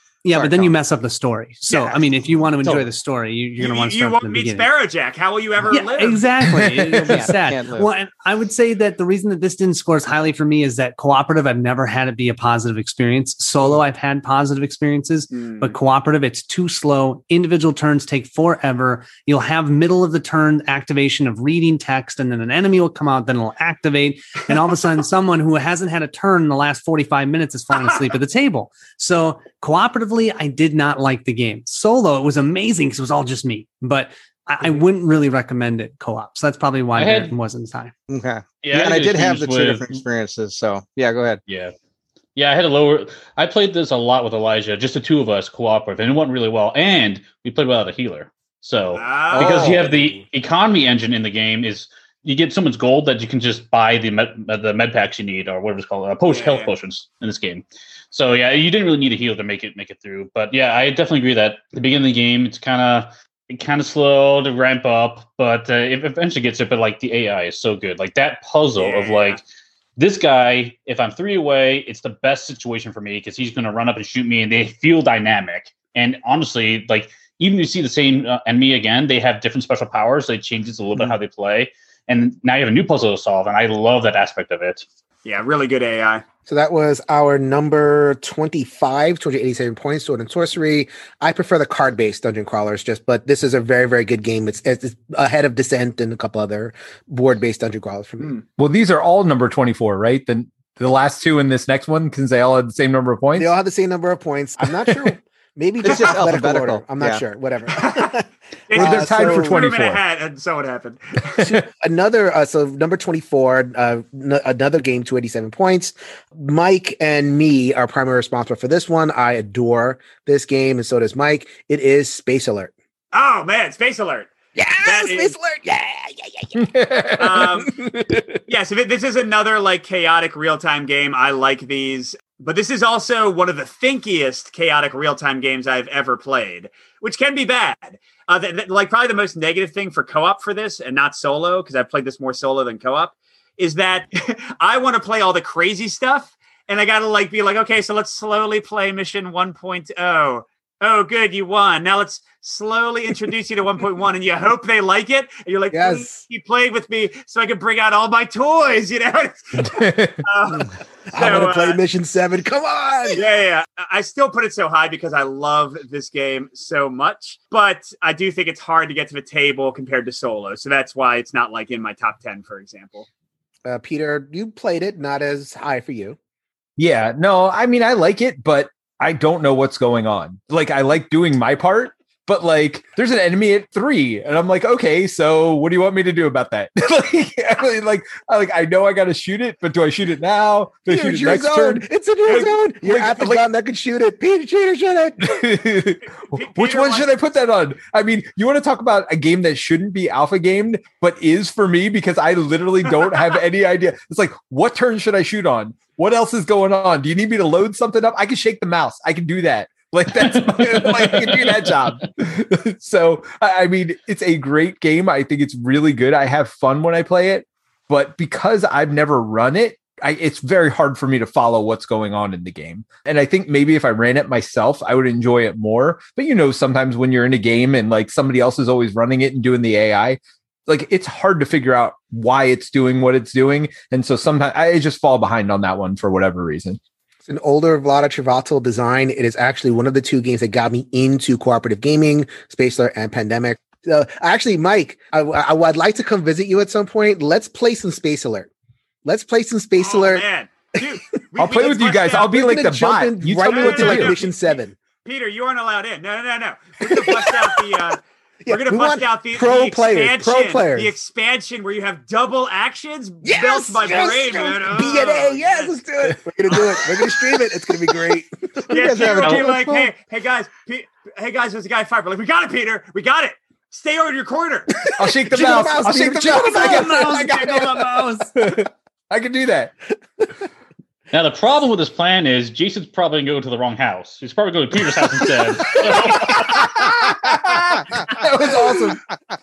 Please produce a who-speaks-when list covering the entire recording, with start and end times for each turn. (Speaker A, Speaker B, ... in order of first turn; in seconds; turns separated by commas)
Speaker A: 0.2-4.7, Speaker B: 0.3-0.7, Speaker B: 1.7-2.0, Speaker B: 2.6-2.9, Speaker C: 3.6-6.2, Speaker A: 5.7-37.9, Speaker D: 6.4-7.2, Speaker B: 6.7-7.9, Speaker C: 15.3-15.7, Speaker E: 37.0-37.3, Speaker B: 38.1-41.4, Speaker E: 38.6-40.0, Speaker E: 41.5-41.7, Speaker E: 42.4-69.4, Speaker C: 48.9-49.9, Speaker B: 49.3-50.0, Speaker C: 56.3-56.7, Speaker C: 68.8-69.4, Speaker E: 70.0-84.8, Speaker C: 85.2-86.2, Speaker F: 86.5-98.4, Speaker D: 98.6-103.5, Speaker F: 103.3-109.7, Speaker B: 105.8-107.2, Speaker C: 107.7-108.1, Speaker C: 108.7-111.4, Speaker D: 108.7-110.0, Speaker F: 111.4-122.7, Speaker C: 123.1-125.3, Speaker F: 124.5-126.7, Speaker D: 126.5-127.6, Speaker C: 127.2-127.7, Speaker F: 127.3-128.3, Speaker C: 128.5-161.8, Speaker F: 155.7-156.2, Speaker D: 159.6-160.2, Speaker F: 161.1-163.3, Speaker C: 163.1-173.1, Speaker F: 173.7-176.2, Speaker D: 176.8-193.5, Speaker F: 190.9-195.4, Speaker D: 195.2-236.8, Speaker C: 196.2-197.1, Speaker E: 210.8-211.6, Speaker F: 237.3-248.5, Speaker F: 249.0-250.3, Speaker C: 249.8-252.4, Speaker D: 251.4-254.2, Speaker F: 252.3-254.8, Speaker C: 253.4-265.7, Speaker F: 256.8-257.9, Speaker F: 258.4-260.9, Speaker F: 263.2-268.7, Speaker C: 268.7-274.9, Speaker B: 268.7-269.6, Speaker F: 274.8-277.6, Speaker D: 274.9-277.8, Speaker C: 276.6-278.2, Speaker A: 276.6-278.2, Speaker D: 278.3-279.7, Speaker E: 281.1-286.7, Speaker D: 285.9-289.0, Speaker F: 288.2-288.9